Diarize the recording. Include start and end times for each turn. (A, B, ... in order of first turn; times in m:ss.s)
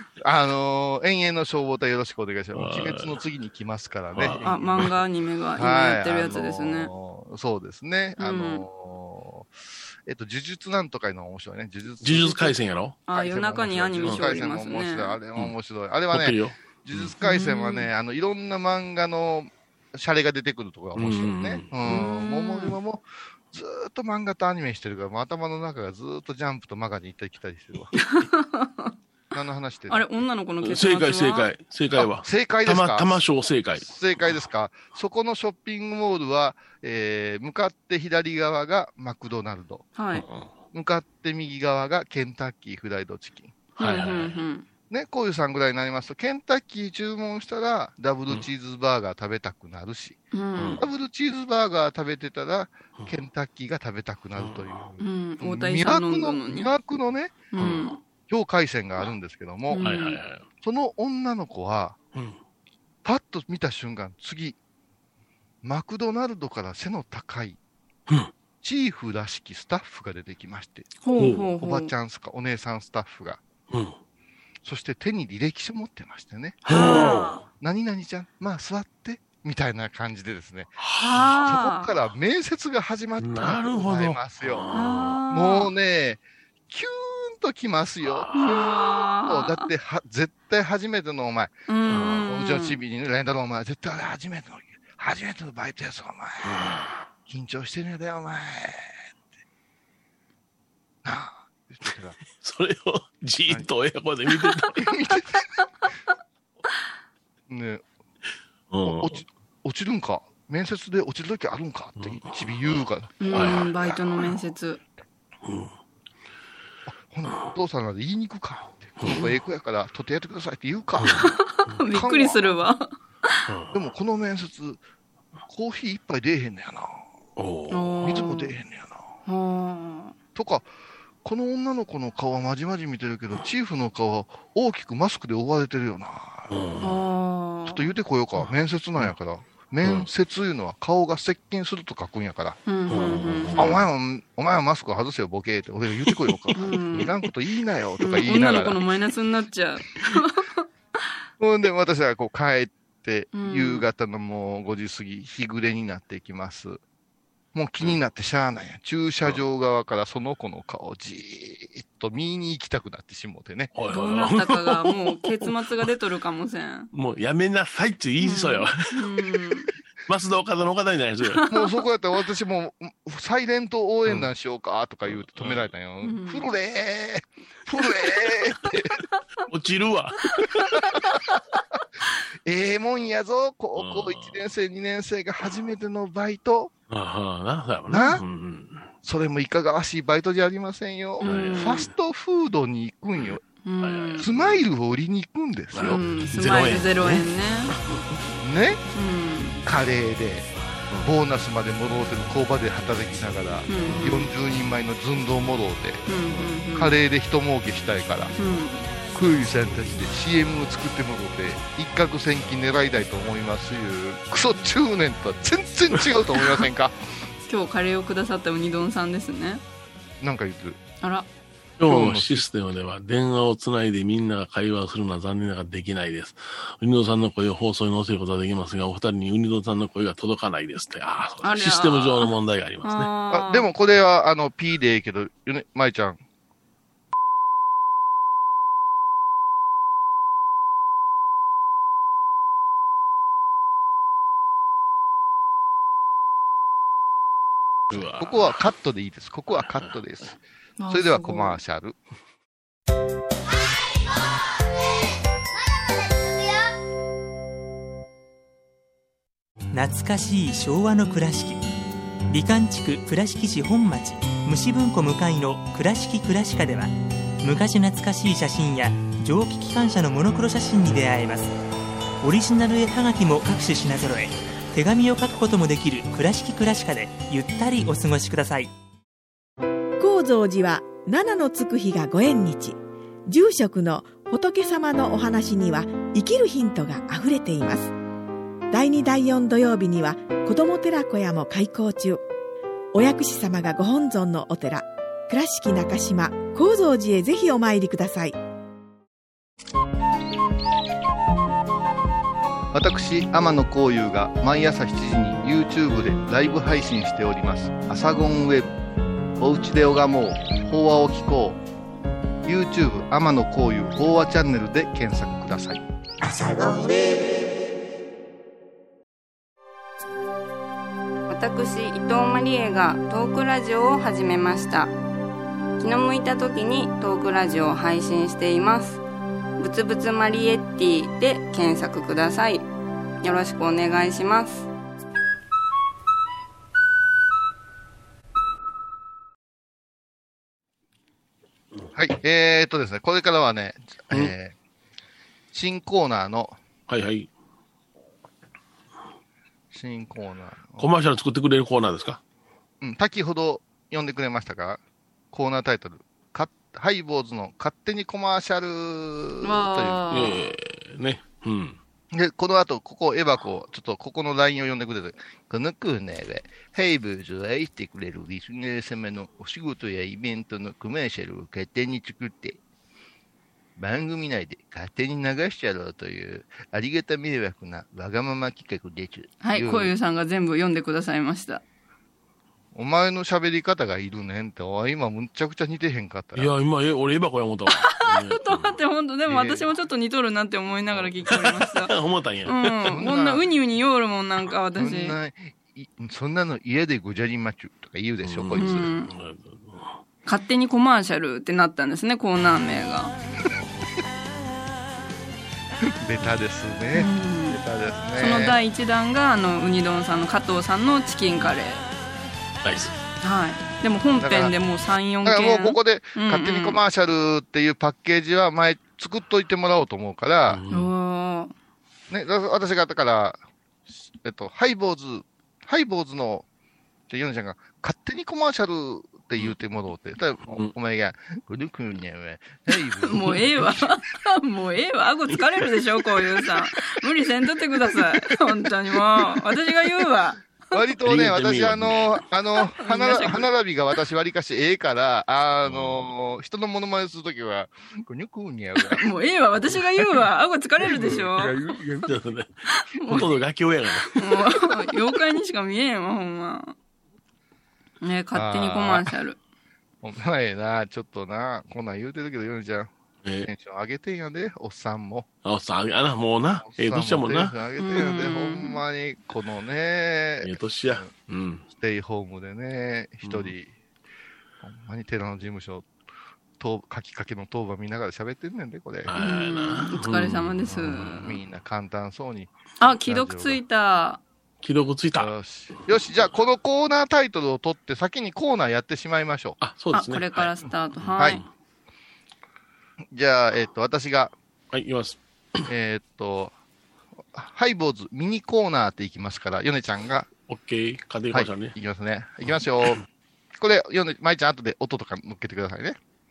0:00.2-0:05.0 A
0:02.5-0:03.2 B
0:04.1-0:04.9 B
0:04.4-0:06.9 C
0:05.6-0:09.6 A
0:08.2-0:08.7 C
0:10.1-0:12.6 A
0:12.0-0:13.0 B
0:13.1-0:15.2 C
0:13.1-0:28.0 A
0:14.0-0:14.4 B
0:16.1-0:17.1 B
0:17.2-0:17.9 C
0:21.0-0:22.0 B
0:21.9-0:22.8 C
0:28.0-0:28.9 C
0:29.3-0:30.1 A
0:29.9-0:31.5 C
0:30.6-0:33.9 B
0:31.9-0:33.2 A
0:33.8-0:39.9 A
0:40.0-0:40.2 C
0:40.2-0:40.5 B
0:40.7-0:43.6 A
0:43.8-0:44.7 C
0:43.8-0:44.4 B
0:44.9-0:50.2 A
0:50.3-0:50.8 C
0:50.6-0:50.8 B
0:50.8-0:57.4 A
0:54.4-0:54.9 B
0:55.0-0:56.7 C
0:57.5-0:58.0 C
0:57.6-0:58.0 B
0:58.3-0:59.9 A
0:59.7-1:00.2 C
0:59.8-1:00.4 B
1:00.6-1:02.0 A
1:03.0-1:04.6 A
1:05.6-1:07.6 A
1:08.6-1:13.4 A
1:11.0-1:11.9 C
1:11.2-1:11.5 B
1:13.7-1:14.0 B
1:14.6-1:24.7 A
1:16.7-1:17.4 B
1:16.7-1:17.4 C
1:20.8-1:21.4 B
1:21.0-1:21.9 C
1:23.2-1:25.2 B
1:24.7-1:25.7 C
1:25.3-1:31.5 A
1:28.0-1:28.5 B
1:28.4-1:29.7 C
1:31.7-1:32.8 C
1:31.9-1:32.3 B
1:32.2-1:39.0 A
1:36.4-1:36.9 B
1:41.0-1:42.2 A
1:42.3-1:44.8 B
1:44.8-1:45.4 A
1:47.5-1:47.8 A
1:48.7-1:49.2 B
1:48.8-1:54.3 A
1:52.0-1:52.8 B
1:53.2-1:54.8 C
1:53.3-1:53.7 B
1:55.4-1:55.7 B
1:56.9-2:01.4 A
1:59.0-1:59.3 B
2:01.0-2:01.2 B
2:01.4-2:03.3 C
2:01.9-2:02.4 A
2:03.5-2:03.8 B
2:03.7-2:04.8 A
2:05.5-2:07.1 A
2:07.4-2:08.1 B
2:07.7-2:08.6 C
2:08.0-2:09.0 A
2:09.3-2:10.2 C
2:10.4-2:10.7 A
2:11.2-2:16.7 A
2:16.5-2:16.9 B
2:16.8-2:17.9 C
2:17.7-2:22.6 A
2:19.8-2:20.1 B
2:22.7-2:23.6 C
2:22.9-2:23.8 B
2:23.6-2:28.8 A
2:26.1-2:27.1 B
2:26.6-2:27.1 C
2:28.0-2:30.6 C
2:31.4-2:36.8 A
2:33.3-2:33.9 C
2:37.5-2:43.7 A
2:43.7-2:45.9 B
2:43.9-2:46.9 C
2:46.9-2:49.5 B
2:48.2-2:49.7 C
2:50.0-2:51.4 B
2:51.5-2:59.0 A
2:55.1-2:55.6 B
2:56.0-2:56.5 C
2:59.5-3:00.2 B
3:00.3-3:00.7 C
3:00.5-3:01.0 A
3:02.4-3:06.7 A
3:03.8-3:04.4 B
3:06.9-3:08.9 B
3:07.9-3:08.2 A
3:09.0-3:13.4 A
3:11.2-3:11.8 C
3:11.2-3:11.9 B
3:13.2-3:14.6 B
3:13.6-3:14.3 C
3:14.2-3:16.0 A
3:15.8-3:18.2 B
3:15.8-3:17.7 C
3:18.4-3:18.8 A
3:19.0-3:19.6 C
3:19.6-3:26.1 A
3:23.7-3:24.3 C
3:26.1-3:27.0 C
3:26.7-3:28.3 A
3:28.4-3:28.9 C
3:29.1-3:37.0 A
3:37.5-3:39.6 C
3:40.2-3:40.8 A
3:41.0-3:41.3 C
3:41.8-3:53.1 B
3:41.9-3:42.5 A
3:51.4-3:52.3 C
3:52.8-3:53.7 C
3:53.3-3:56.2 A
4:07.9-4:12.0 A
4:07.9-4:08.6 B
4:09.6-4:09.9 B
4:10.8-4:11.6 C
4:19.7-4:21.6 D
4:22.3-4:31.5 D
4:32.2-4:38.7 D
4:40.0-4:47.9 E
4:48.7-4:52.2 E
4:52.9-4:58.4 E
5:02.7-5:08.7 A
5:09.4-5:11.6 A
5:12.4-5:15.8 A
5:16.4-5:17.0 A
5:21.3-5:24.9 C
5:25.8-5:29.0 C
5:29.6-5:32.6 C
5:33.2-5:34.7 C
5:41.9-5:44.5 A
5:45.5-5:46.6 A
5:46.9-5:47.3 B
5:49.7-5:50.9 A
5:50.8-5:52.2 B
5:52.8-5:54.8 A
5:55.3-6:00.3 A
5:59.4-6:00.3 C
6:00.1-6:01.8 B
6:02.1-6:12.6 A
6:13.8-6:19.9 A
6:19.4-6:21.6 C
6:22.7-6:26.5 A
6:26.4-6:29.7 B
6:28.4-6:31.9 C
6:31.3-6:33.0 B
6:32.5-6:35.2 C
6:32.9-6:33.4 A
6:34.8-6:38.9 A
6:38.2-6:40.0 B
6:38.6-6:39.1 C
6:40.3-6:43.1 C
6:43.5-6:43.9 A
6:45.8-6:48.6 A
6:46.9-6:47.6 C
6:48.2-6:51.9 C
6:52.6-6:52.9 B
6:53.2-6:56.8 C
6:54.2-6:54.5 A
6:55.2-7:00.6 A
7:00.5-7:00.9 B
7:00.7-7:01.5 C
7:02.1-7:03.4 A
7:04.1-7:06.4 A
7:07.1-7:13.9 A
7:13.1-7:20.4 C
7:20.7-7:29.1 A
7:21.0-7:22.2 B
7:22.8-7:23.5 C
7:25.6-7:26.1 B
7:28.8-7:31.5 C
7:29.7-7:30.2 A
7:30.8-7:32.2 A
7:31.0-7:32.5 B
7:33.0-7:33.4 C
7:33.1-7:34.4 B
7:34.2-7:36.8 C
7:38.0-7:39.4 C
7:38.3-7:39.1 A
7:40.0-7:45.3 A
7:43.2-7:43.5 B
7:45.4-7:47.6 B
7:46.6-7:51.1 A
7:47.8-7:48.8 C
7:50.4-7:51.7 B
7:51.7-7:53.7 A
7:53.2-7:53.5 B
7:54.6-7:55.9 A
7:56.6-7:59.1 A
7:59.0-8:01.3 B
7:59.2-8:01.3 C
8:00.9-8:02.5 A
8:02.8-8:04.2 C
8:03.1-8:03.6 A
8:04.6-8:05.3 B
8:05.2-8:09.6 A
8:09.6-8:11.5 B
8:09.9-8:11.4 C
8:13.1-8:14.3 A
8:14.7-8:15.7 B
8:15.7-8:16.5 A
8:17.3-8:20.3 A
8:20.5-8:21.7 B
8:21.3-8:23.0 A
8:23.6-8:26.0 A